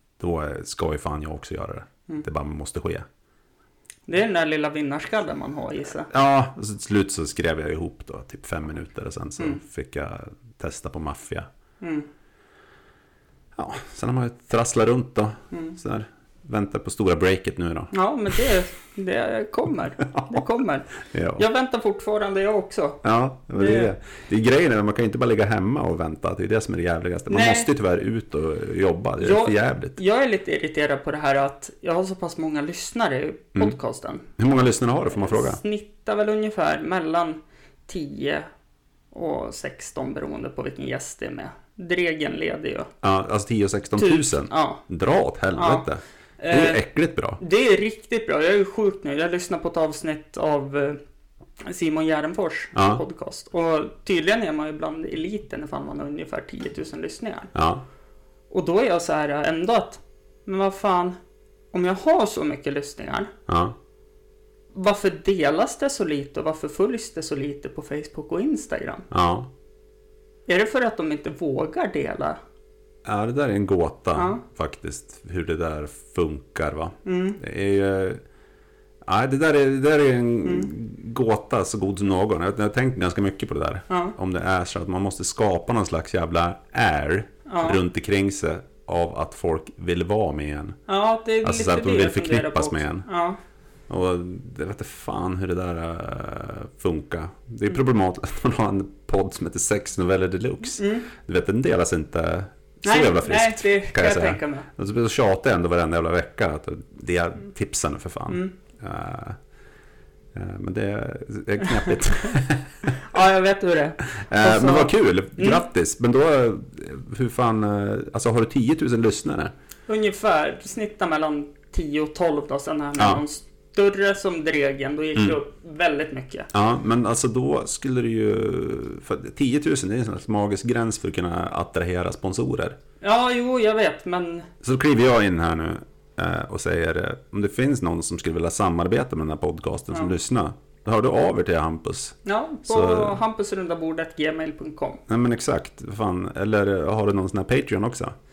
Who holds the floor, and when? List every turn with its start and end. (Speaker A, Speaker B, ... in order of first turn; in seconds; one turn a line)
Speaker A: 0.2-3.1
Speaker B: 4.1-6.1
Speaker A: 6.1-11.5
Speaker B: 11.8-12.1
Speaker A: 13.6-17.9
Speaker B: 17.9-23.0
Speaker A: 20.0-20.4
Speaker A: 21.0-21.5
Speaker A: 23.0-30.0
Speaker B: 23.6-23.9
Speaker B: 27.3-27.7
Speaker B: 29.2-34.3
Speaker A: 34.4-35.6
Speaker B: 35.1-38.5
Speaker B: 39.1-42.9
Speaker A: 43.0-47.4
Speaker B: 44.0-44.8
Speaker B: 45.6-45.9
Speaker B: 46.4-46.8
Speaker B: 47.4-51.0
Speaker B: 51.6-57.5
Speaker A: 52.8-53.0
Speaker A: 57.5-57.8
Speaker B: 58.5-61.2
Speaker B: 61.7-63.3
Speaker A: 63.5-63.8
Speaker B: 64.7-69.1
Speaker A: 69.1-69.5
Speaker B: 70.5-72.4
Speaker A: 73.1-78.2
Speaker B: 74.2-74.4
Speaker B: 77.0-77.4
Speaker A: 79.1-90.8
Speaker B: 80.5-80.7
Speaker B: 83.9-84.2
Speaker B: 87.5-87.8
Speaker B: 90.9-93.4
Speaker A: 91.4-93.1
Speaker A: 93.9-109.4
Speaker B: 100.8-101.1
Speaker B: 102.8-104.7
Speaker A: 110.3-113.0
Speaker B: 113.0-115.6
Speaker A: 114.1-119.5
Speaker B: 119.9-126.5
Speaker A: 123.0-123.2
Speaker A: 126.5-132.8
Speaker B: 133.0-134.5
Speaker A: 134.6-143.2
Speaker B: 142.2-145.0
Speaker A: 145.1-148.1